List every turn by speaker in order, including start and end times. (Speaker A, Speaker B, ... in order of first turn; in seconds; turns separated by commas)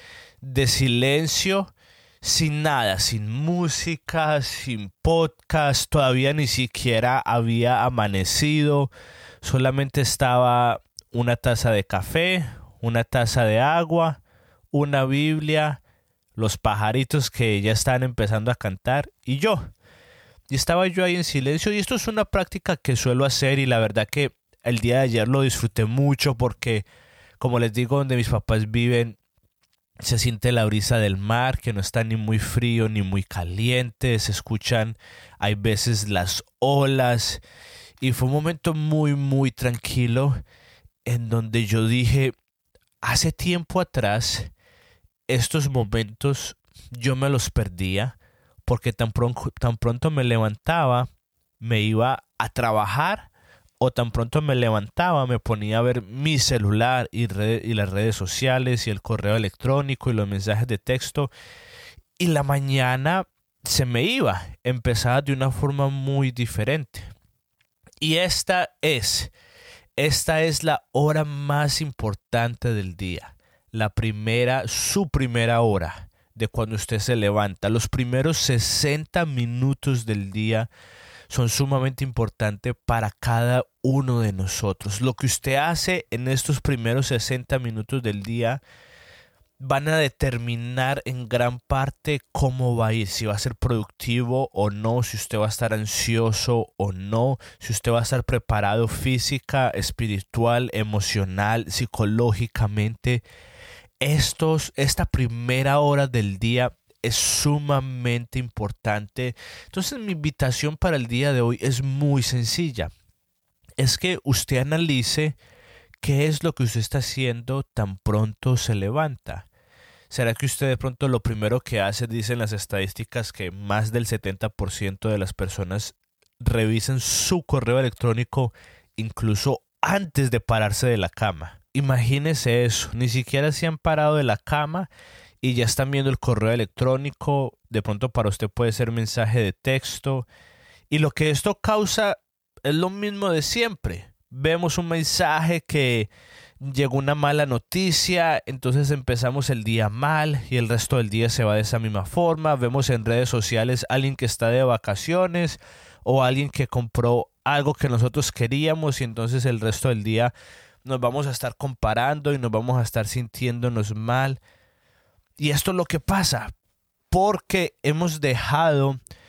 Speaker A: 0.4-8.9, Speaker A: 9.4-14.2, Speaker A: 14.7-15.8, Speaker A: 16.4-19.6, Speaker A: 20.5-26.9, Speaker A: 27.4-29.2, Speaker A: 30.0-37.4, Speaker A: 38.0-40.4, Speaker A: 41.1-42.4, Speaker A: 43.0-44.5, Speaker A: 45.3-51.1, Speaker A: 51.6-61.3, Speaker A: 62.2-67.1, Speaker A: 68.0-69.3, Speaker A: 70.0-80.7, Speaker A: 81.3-88.6, Speaker A: 89.6-103.2, Speaker A: 104.0-112.9, Speaker A: 113.8-115.4, Speaker A: 116.0-119.5, Speaker A: 120.1-134.9, Speaker A: 135.4-140.3, Speaker A: 140.9-146.1, Speaker A: 146.6-160.3, Speaker A: 160.8-164.4, Speaker A: 165.4-166.5, Speaker A: 167.1-169.0